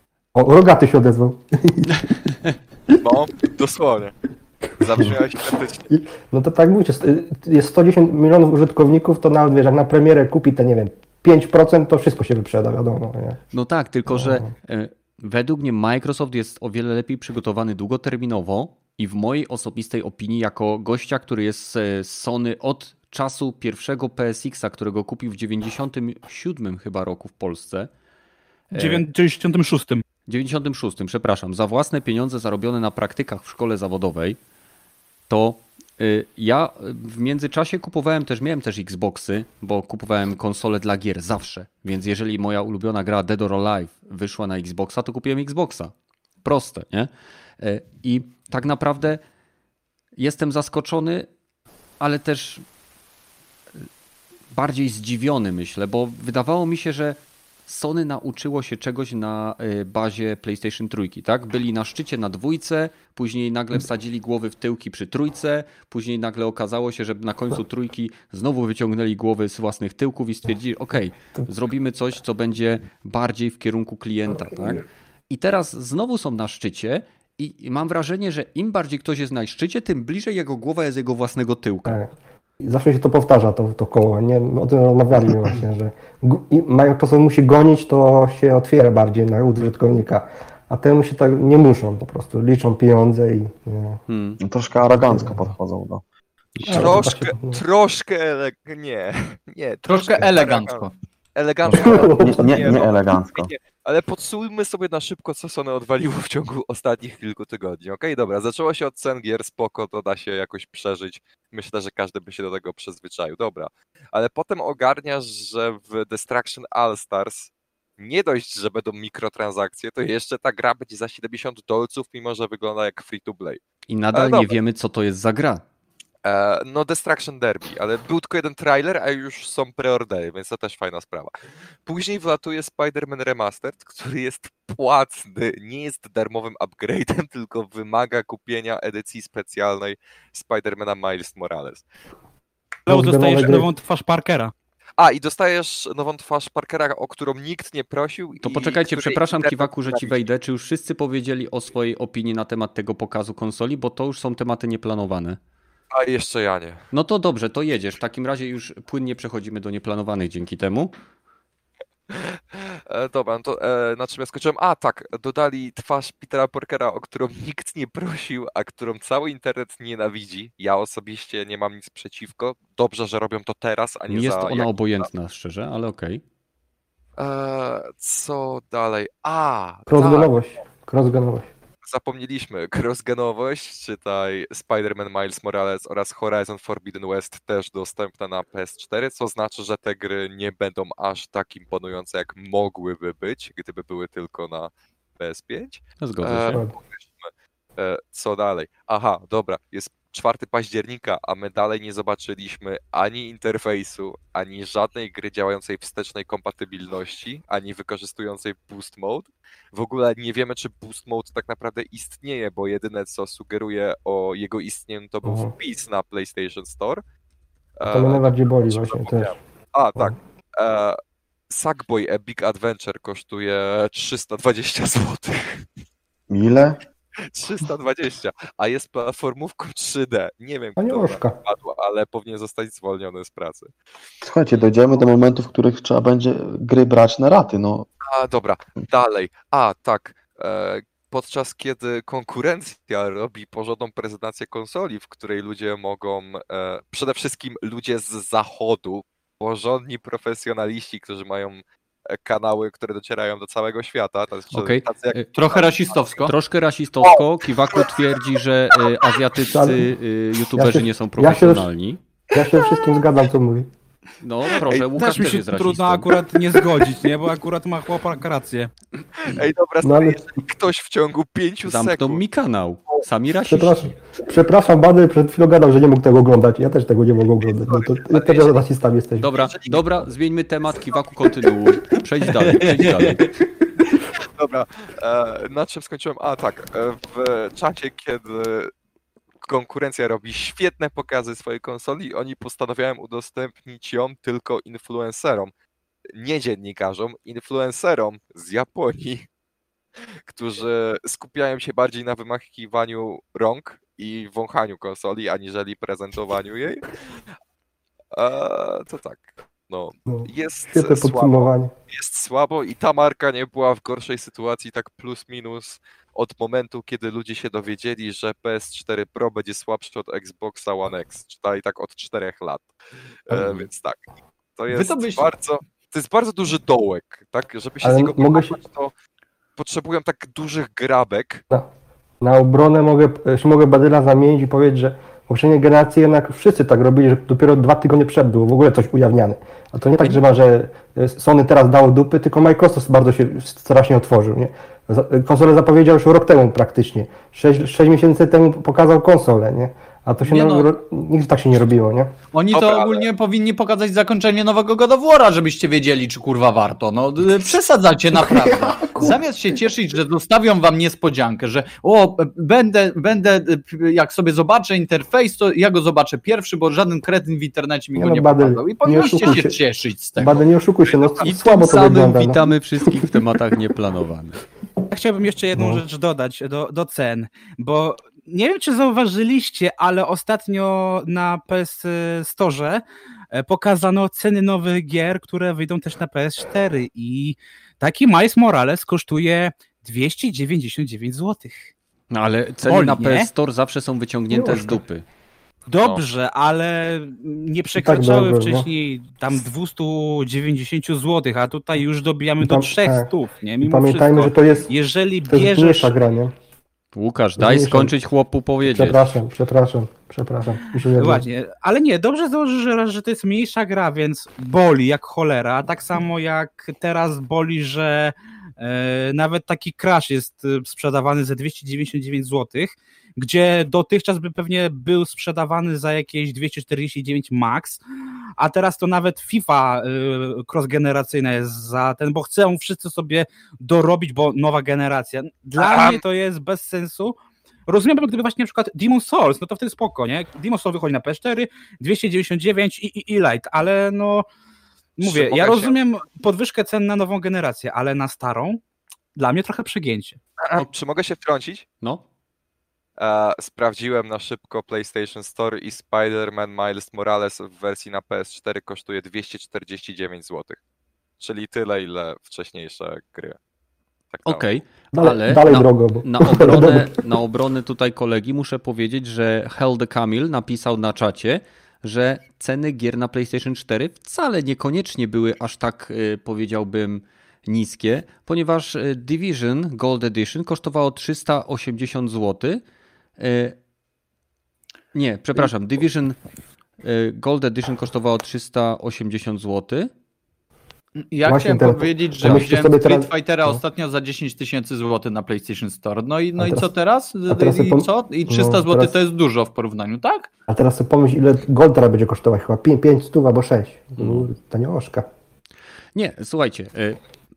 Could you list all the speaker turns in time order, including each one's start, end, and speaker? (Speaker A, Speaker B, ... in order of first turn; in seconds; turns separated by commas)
Speaker A: 0.3-1.9, Speaker B: 2.9-4.1, Speaker B: 4.8-6.0, Speaker A: 5.9-13.4, Speaker C: 13.5-27.9, Speaker A: 14.1-14.5, Speaker D: 28.7-30.0, Speaker C: 28.7-29.0, Speaker C: 30.3-34.4, Speaker C: 35.3-49.2, Speaker C: 50.2-51.3, Speaker C: 52.0-52.6, Speaker C: 54.5-82.0, Speaker A: 81.8-94.0, Speaker C: 94.1-94.4, Speaker E: 94.4-96.0, Speaker A: 94.8-95.5, Speaker E: 96.6-97.0, Speaker B: 96.6-123.6, Speaker A: 96.7-97.6, Speaker F: 99.8-100.9, Speaker F: 101.7-101.9, Speaker A: 101.7-102.5, Speaker E: 101.7-103.5, Speaker C: 123.9-125.6, Speaker B: 124.1-124.5, Speaker B: 126.2-131.3, Speaker B: 131.8-141.8, Speaker D: 142.9-144.5, Speaker A: 142.9-143.7, Speaker B: 145.0-150.2, Speaker C: 148.4-155.4, Speaker B: 155.9-156.8, Speaker C: 156.9-160.9, Speaker B: 162.1-175.1, Speaker C: 174.1-176.2, Speaker B: 177.2-180.3, Speaker A: 179.9-181.5, Speaker B: 181.8-217.0, Speaker C: 196.0-196.6, Speaker A: 215.2-215.5, Speaker B: 217.8-225.7, Speaker A: 217.8-219.3, Speaker E: 226.3-226.8, Speaker B: 227.3-233.7, Speaker A: 230.8-231.4, Speaker E: 234.2-237.9, Speaker B: 238.0-255.9, Speaker C: 254.5-255.2, Speaker F: 255.3-256.3, Speaker C: 256.2-262.0, Speaker B: 257.0-258.0, Speaker B: 258.8-259.1, Speaker A: 259.5-259.8, Speaker A: 260.5-261.7, Speaker A: 262.3-263.7, Speaker C: 264.2-266.1, Speaker D: 264.9-268.7, Speaker B: 269.2-272.2, Speaker A: 269.8-270.2, Speaker C: 271.6-273.9, Speaker A: 273.5-279.3, Speaker B: 277.5-278.5, Speaker C: 279.2-283.3, Speaker B: 279.5-279.8, Speaker F: 282.4-283.2, Speaker B: 283.9-288.7, Speaker B: 289.4-295.5, Speaker B: 296.2-299.2, Speaker B: 300.3-306.9, Speaker B: 308.1-322.7, Speaker A: 310.1-311.7, Speaker B: 323.3-328.9, Speaker F: 324.7-325.3, Speaker A: 327.8-328.6, Speaker B: 329.6-331.4, Speaker A: 332.2-352.1, Speaker F: 350.2-350.7, Speaker F: 352.3-370.4, Speaker B: 352.5-353.1, Speaker A: 358.1-359.2, Speaker A: 367.9-369.6, Speaker A: 370.2-373.1, Speaker B: 370.9-371.2, Speaker C: 371.2-374.4, Speaker D: 374.9-391.7, Speaker A: 375.5-375.8, Speaker C: 392.1-395.0, Speaker D: 392.6-393.3, Speaker A: 394.3-394.8, Speaker D: 395.7-405.9, Speaker A: 397.8-398.7, Speaker A: 402.4-403.1, Speaker A: 403.6-404.7, Speaker A: 405.3-406.3, Speaker C: 406.9-409.1, Speaker A: 407.4-407.9, Speaker A: 408.7-411.2, Speaker D: 410.9-427.8, Speaker D: 428.4-437.1, Speaker B: 435.6-436.0, Speaker D: 437.7-444.2, Speaker D: 445.0-448.6, Speaker B: 445.0-445.7, Speaker D: 449.1-450.2, Speaker B: 450.4-451.6, Speaker C: 451.8-452.1, Speaker B: 453.0-460.6, Speaker B: 461.2-463.4, Speaker B: 464.1-464.5, Speaker C: 464.2-482.6, Speaker A: 464.9-466.9, Speaker C: 483.2-483.6, Speaker C: 484.9-486.2, Speaker C: 486.8-489.9, Speaker F: 491.0-500.3, Speaker A: 491.2-493.6, Speaker A: 496.4-496.7, Speaker A: 497.3-498.9, Speaker A: 500.5-505.1, Speaker C: 505.9-507.0